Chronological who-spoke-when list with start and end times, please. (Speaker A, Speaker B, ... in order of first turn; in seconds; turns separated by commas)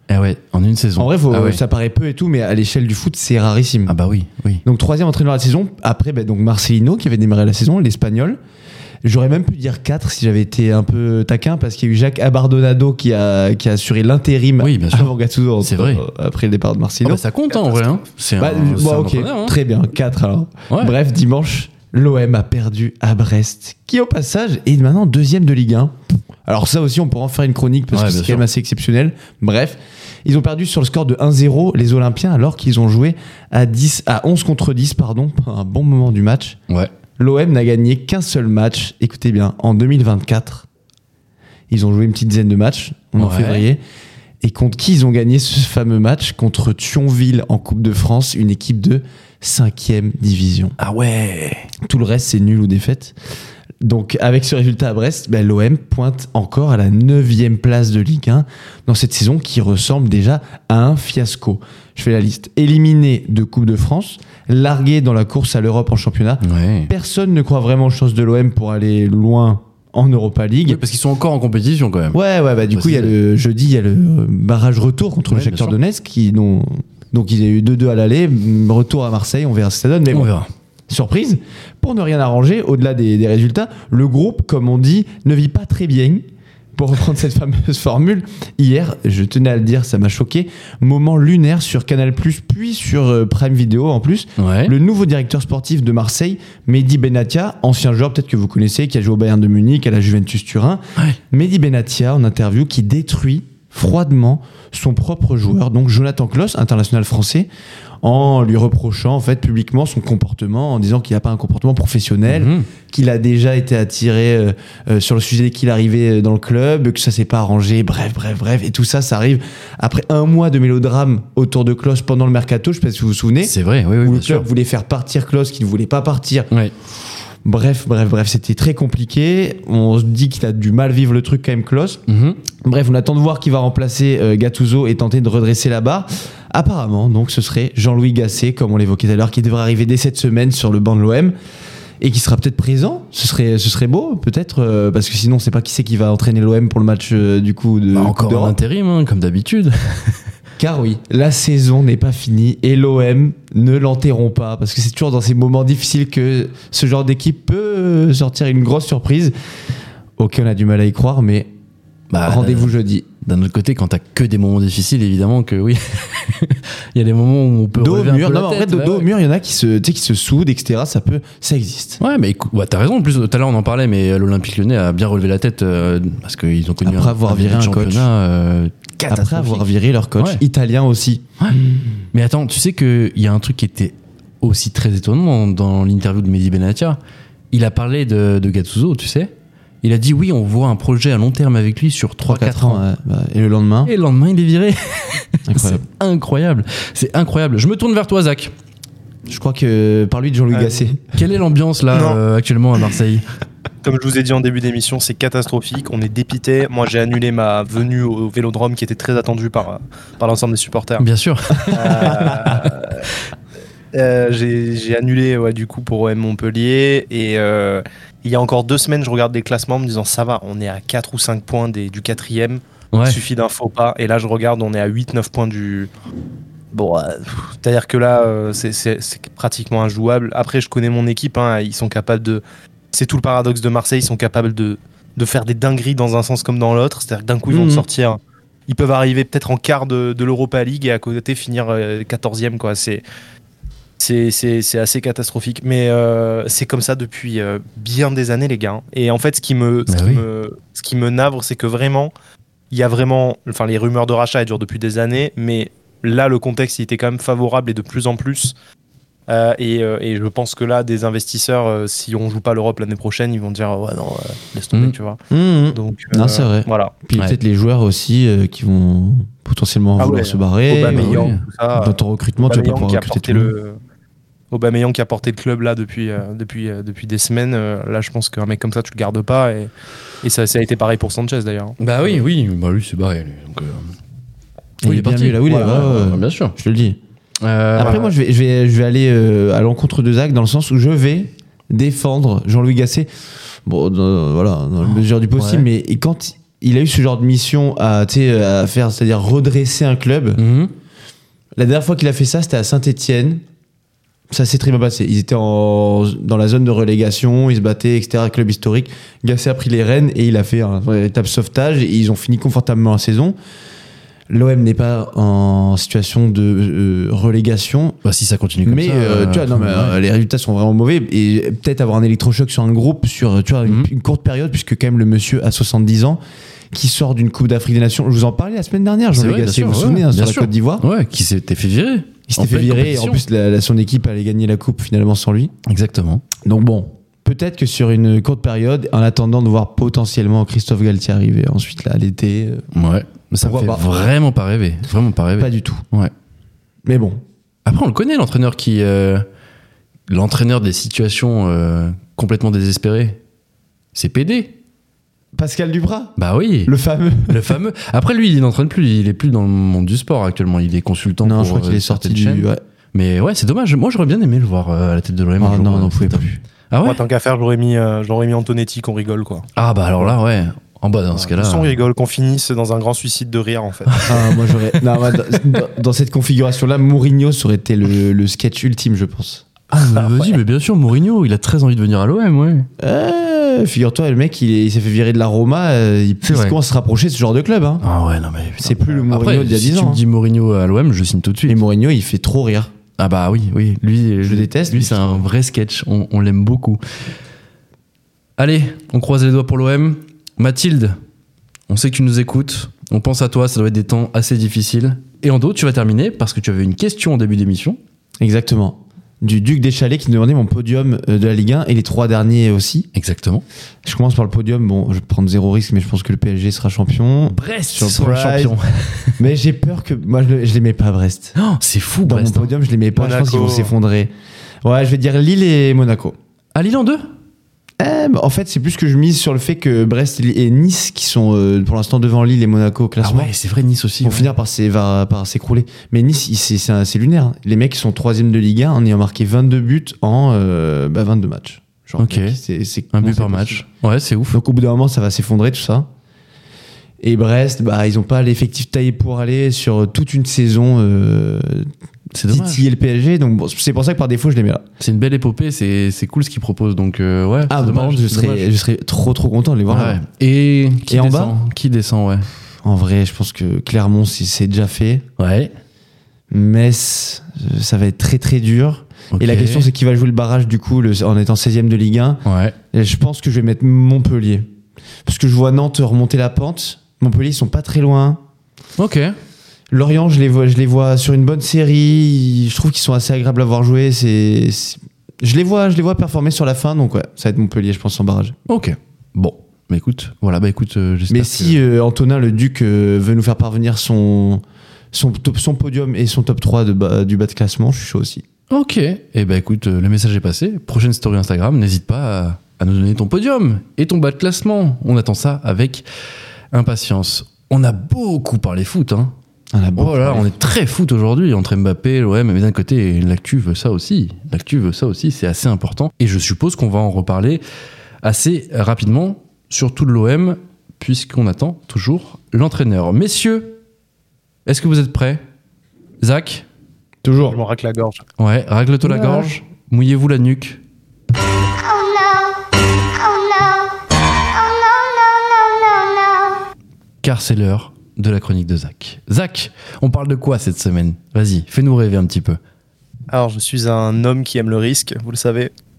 Speaker A: 0.1-1.6, Speaker B: 1.0-4.0, Speaker A: 3.9-4.6, Speaker B: 4.7-8.4, Speaker B: 9.0-17.2, Speaker A: 14.6-16.1, Speaker A: 17.0-19.6, Speaker B: 18.4-36.6, Speaker A: 20.7-20.9, Speaker A: 27.9-28.4, Speaker B: 37.2-40.7, Speaker B: 41.7-43.8, Speaker A: 43.2-43.7, Speaker B: 44.4-50.8, Speaker A: 50.8-51.7, Speaker B: 51.8-53.1, Speaker B: 53.8-70.8, Speaker A: 66.4-66.9, Speaker A: 70.7-72.2, Speaker B: 72.1-80.3, Speaker A: 72.7-73.2, Speaker A: 75.3-75.8, Speaker A: 80.1-80.5, Speaker B: 80.9-86.2, Speaker B: 86.8-107.5, Speaker A: 94.4-94.8, Speaker B: 108.0-126.5, Speaker A: 112.3-112.7, Speaker A: 123.4-124.5, Speaker B: 127.4-132.0, Speaker A: 132.1-132.4, Speaker B: 132.6-141.3, Speaker B: 142.0-148.6, Speaker A: 147.9-150.2, Speaker B: 150.6-159.3, Speaker B: 160.2-161.5, Speaker A: 162.1-169.1, Speaker B: 162.2-163.1, Speaker B: 167.8-172.0, Speaker A: 172.0-180.4, Speaker B: 176.8-178.1, Speaker B: 179.0-181.9, Speaker A: 182.1-187.0, Speaker A: 187.5-192.8, Speaker B: 192.2-193.9, Speaker A: 193.8-198.5, Speaker B: 195.5-195.8, Speaker B: 199.3-201.0, Speaker C: 200.5-200.8, Speaker A: 201.2-203.2, Speaker C: 201.9-202.2, Speaker C: 203.8-211.1, Speaker A: 211.0-212.6, Speaker C: 211.7-213.1, Speaker C: 213.9-225.9, Speaker A: 222.9-223.2, Speaker C: 226.7-243.0, Speaker B: 237.5-237.9, Speaker C: 244.0-252.1, Speaker A: 249.9-250.2, Speaker C: 252.7-258.5, Speaker C: 259.3-265.2, Speaker B: 265.3-273.5, Speaker C: 265.7-266.9, Speaker C: 270.0-273.8, Speaker A: 270.9-271.4, Speaker C: 274.5-279.7, Speaker C: 280.2-281.8, Speaker A: 281.8-283.9, Speaker B: 284.8-287.0, Speaker A: 284.9-286.6, Speaker A: 287.4-288.1, Speaker B: 287.8-293.1, Speaker B: 293.6-300.4, Speaker A: 295.4-295.7, Speaker A: 300.4-300.7, Speaker B: 301.6-303.4, Speaker B: 304.3-313.4, Speaker B: 314.3-318.0, Speaker A: 318.0-320.0, Speaker B: 318.6-326.2, Speaker B: 326.7-330.9, Speaker A: 329.1-333.2, Speaker B: 332.3-335.5, Speaker A: 335.7-336.2, Speaker B: 336.4-342.7, Speaker A: 342.7-346.1, Speaker B: 343.4-343.9, Speaker B: 345.4-345.9, Speaker B: 346.9-347.2, Speaker A: 347.7-349.2, Speaker A: 350.1-353.2, Speaker A: 353.9-354.6, Speaker B: 355.3-357.6, Speaker A: 356.2-356.7, Speaker A: 357.3-367.0, Speaker B: 361.2-362.6, Speaker B: 365.4-366.4, Speaker C: 366.8-369.5, Speaker A: 369.6-371.8, Speaker C: 371.2-374.1, Speaker B: 374.1-379.5, Speaker A: 374.8-375.4, Speaker A: 379.7-382.7, Speaker C: 380.1-380.4, Speaker B: 382.8-387.8, Speaker A: 386.2-386.6, Speaker A: 387.8-391.6, Speaker B: 388.6-390.0, Speaker B: 391.5-392.7, Speaker A: 393.0-396.8, Speaker B: 394.2-395.2, Speaker A: 398.4-401.0, Speaker A: 401.7-407.8, Speaker B: 408.2-412.9, Speaker A: 412.9-413.4, Speaker B: 413.8-418.6, Speaker A: 417.3-419.2, Speaker B: 419.2-421.4, Speaker A: 421.4-422.5, Speaker B: 422.1-424.1, Speaker C: 423.0-423.7, Speaker B: 424.6-426.2, Speaker A: 426.6-427.1, Speaker B: 427.8-433.3, Speaker A: 433.0-434.3, Speaker B: 434.0-443.6, Speaker A: 442.0-442.4, Speaker A: 442.9-444.4, Speaker B: 444.3-445.9, Speaker B: 447.0-451.7, Speaker A: 452.1-452.7, Speaker B: 452.3-454.6, Speaker A: 454.8-458.5, Speaker B: 457.5-460.0, Speaker A: 459.7-462.3, Speaker B: 460.9-461.4, Speaker B: 462.6-465.1, Speaker A: 465.2-465.5, Speaker B: 466.3-472.2, Speaker A: 469.1-469.7, Speaker A: 472.2-472.6, Speaker B: 472.7-474.5, Speaker B: 475.1-478.2, Speaker A: 478.8-479.1, Speaker B: 479.7-488.4, Speaker A: 488.5-491.6, Speaker B: 491.1-498.2, Speaker A: 498.5-505.9, Speaker A: 506.5-509.1, Speaker B: 509.5-510.3, Speaker A: 509.8-517.4, Speaker A: 518.0-523.6, Speaker A: 524.5-525.2, Speaker A: 526.0-526.5, Speaker B: 527.0-527.4, Speaker C: 527.3-528.0, Speaker A: 528.2-530.6, Speaker A: 537.0-542.4, Speaker C: 543.1-545.5